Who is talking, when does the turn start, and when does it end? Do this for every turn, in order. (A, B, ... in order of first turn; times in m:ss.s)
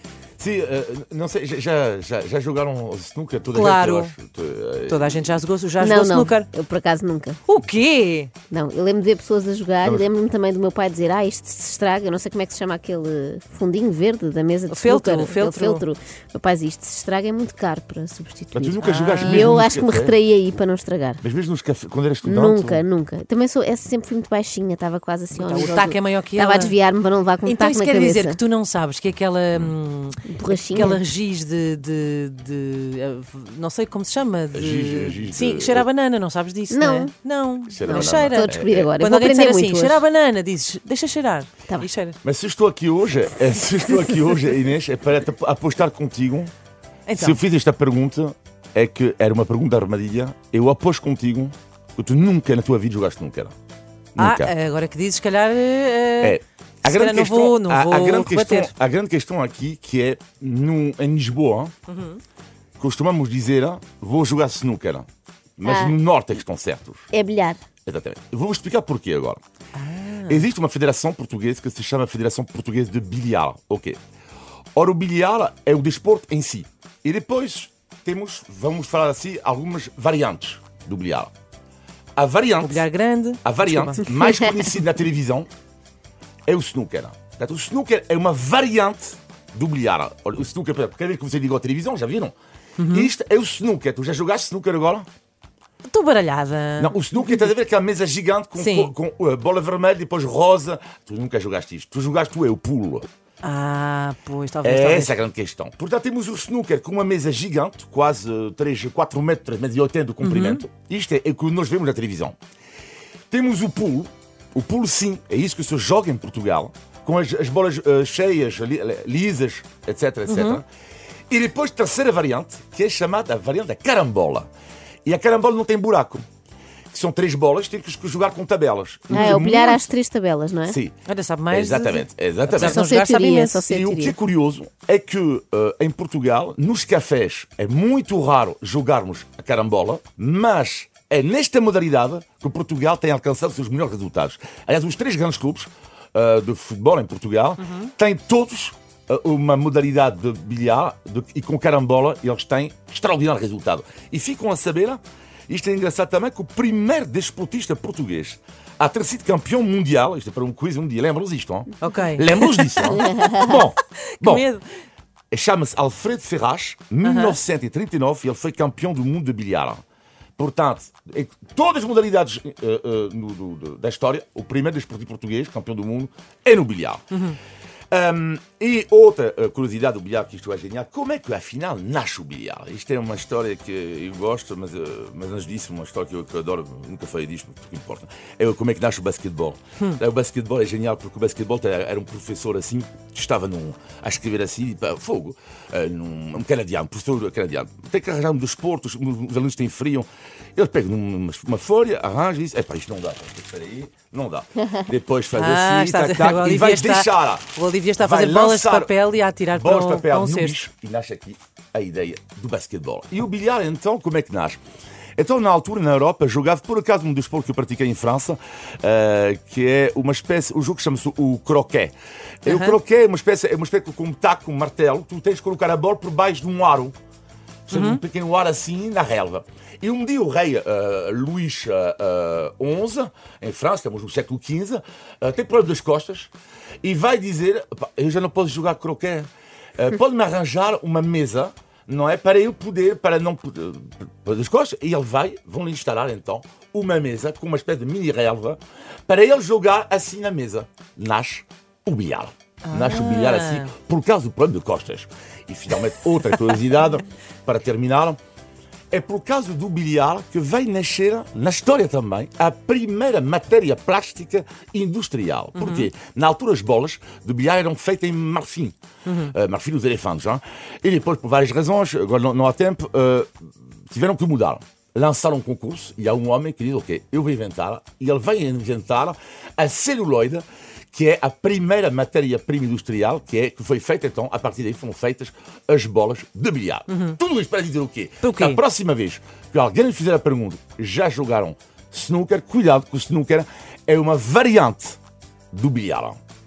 0:00.4-0:05.3 A
0:03.5-0:04.1 B
0:04.9-0:06.5 B
0:05.8-0:07.4 C
0:07.4-0:08.3 B
0:08.5-0:21.2 C
0:14.7-0:15.8 B
0:18.5-0:20.2 A
0:18.8-0:19.6 B
0:21.2-0:22.8 A
0:22.2-0:28.4 C
0:25.3-0:26.8 B
0:27.4-0:42.2 B
0:30.3-0:31.0 C
0:34.5-0:35.9 A
0:36.7-0:37.1 C
0:37.7-0:38.9 A
0:37.8-0:40.0 C
0:42.2-0:46.5 A
0:47.1-0:47.4 B
0:47.2-0:53.5 A
0:54.2-0:54.5 A
0:54.2-0:58.7 B
0:56.2-1:01.7 A
1:01.9-1:02.2 B
1:02.8-1:05.0 A
1:05.6-1:07.1 A
1:05.6-1:06.0 C
1:07.1-1:07.6 C
1:07.8-1:09.4 A
1:09.8-1:10.5 B
1:10.3-1:14.0 A
1:14.8-1:21.3 A
1:22.2-1:22.8 A
1:22.6-1:24.7 B
1:23.4-1:25.5 A
1:26.4-1:32.3 A
1:32.8-1:33.1 B
1:32.9-1:35.0 A
1:35.9-1:37.5 B
1:36.8-1:43.1 A
1:38.6-1:38.9 B
1:43.4-1:45.1 B
1:44.6-1:52.4 A
1:50.2-1:50.6 B
1:53.3-2:00.6 A
2:00.3-2:00.6 B
2:01.3-2:04.5 A
2:05.0-2:06.2 A
2:06.9-2:09.9 A
2:09.1-2:09.4 B
2:09.1-2:10.8 C
2:10.7-2:11.0 A
2:11.0-2:13.6 B
2:11.5-2:12.9 A
2:12.6-2:14.2 C
2:13.7-2:44.4 A
2:27.6-2:27.9 B
2:41.8-2:44.6 B
2:45.3-2:49.8 A
2:47.0-2:47.4 B
2:50.4-2:57.1 A
2:57.1-2:57.4 B
2:57.9-3:28.9 A
3:25.3-3:30.6 B
3:29.5-3:34.6 A
3:35.2-3:46.9 A
3:42.4-3:42.8 B
3:47.7-3:56.3 A
3:47.7-3:48.0 B
3:56.8-4:18.2 A
4:12.6-4:13.7 B
4:18.9-4:28.8 A
4:25.5-4:25.9 B
4:29.0-4:29.3 B
4:29.3-4:33.3 A
4:33.9-4:55.0 A
4:46.9-4:47.2 B
4:48.2-4:48.6 B
4:55.5-4:56.2 A